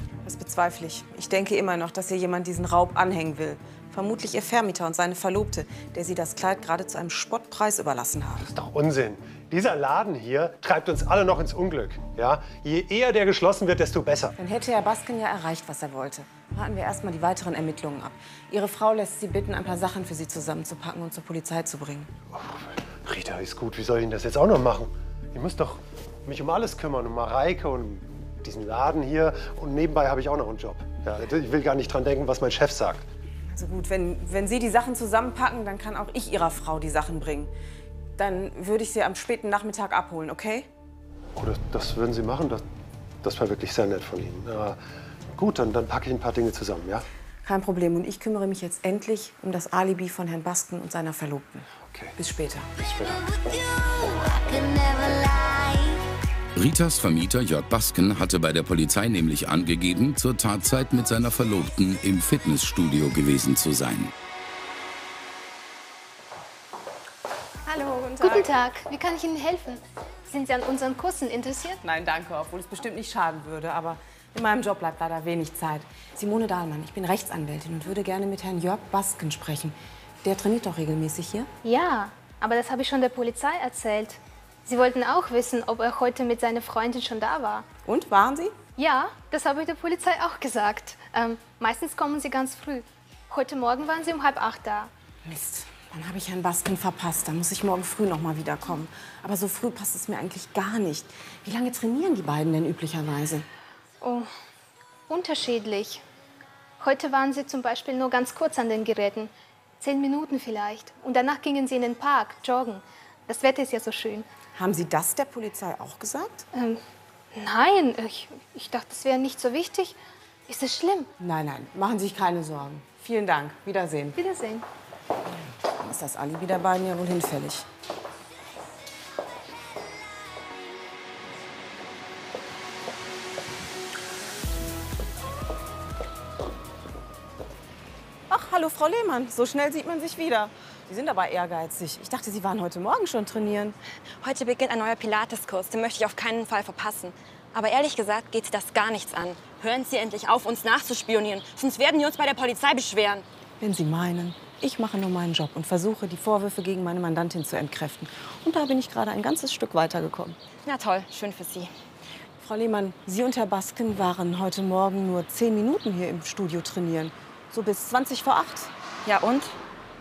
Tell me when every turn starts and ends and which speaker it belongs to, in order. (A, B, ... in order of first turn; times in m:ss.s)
0:00.2-0:08.5 A
0:08.4-0:14.3 B
0:14.4-0:22.1 A
0:22.3-0:33.0 B
0:33.5-0:37.5 A
0:38.2-0:40.7 A
0:41.4-0:42.6 B
0:43.2-0:44.8 B
0:45.4-0:47.0 B
0:47.4-0:52.7 A
0:52.8-0:53.3 B
0:56.6-1:04.1 C
1:07.7-1:08.5 A
1:08.2-1:11.8 D
1:11.8-1:21.5 A
1:21.6-1:27.7 D
1:27.8-1:28.5 A
1:28.8-1:34.9 D
1:35.2-1:43.5 A
1:44.0-1:44.3 D
1:45.1-1:46.0 D
1:46.8-1:54.3 D
1:54.5-1:56.4 A
1:56.5-1:56.8 D
1:57.3-2:01.1 D
2:01.2-2:04.2 A
2:04.2-2:04.6 D
2:05.8-2:07.7 A
2:18.3-2:23.8 A
2:24.2-2:33.2 E
2:33.6-2:40.4 A
2:40.6-2:41.7 E
2:42.4-2:48.7 A
2:49.0-2:49.6 E